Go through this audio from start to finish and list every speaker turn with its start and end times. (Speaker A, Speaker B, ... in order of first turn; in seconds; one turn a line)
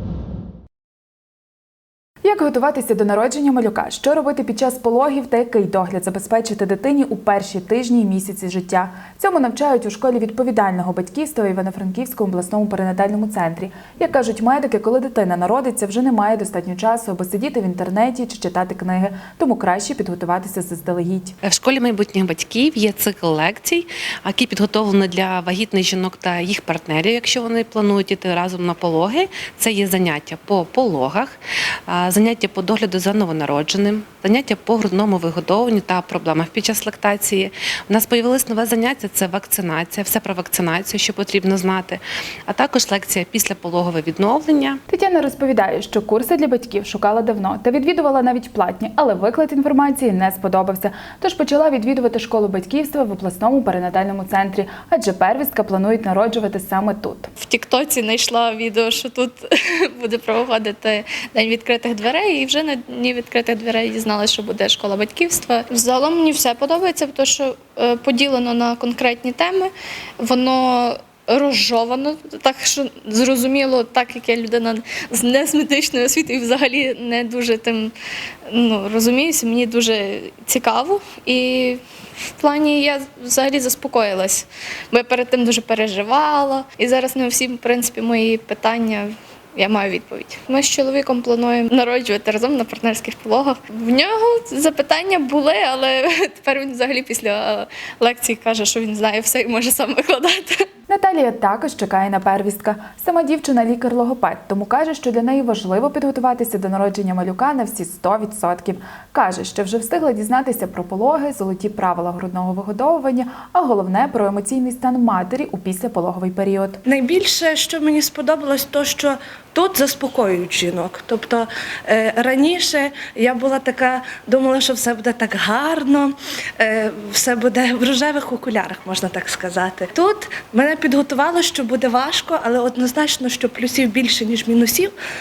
Speaker A: 2.2-21.3
Speaker B: 21.4-31.4
Speaker B: 31.9-44.8
Speaker A: 44.9-57.3
Speaker C: 57.5-59.3
Speaker C: 60.0-69.7
Speaker C: 70.2-77.9
Speaker C: 78.5-81.8
Speaker C: 82.4-89.0
Speaker C: 89.6-100.5
Speaker A: 100.9-116.8
Speaker D: 116.8-134.9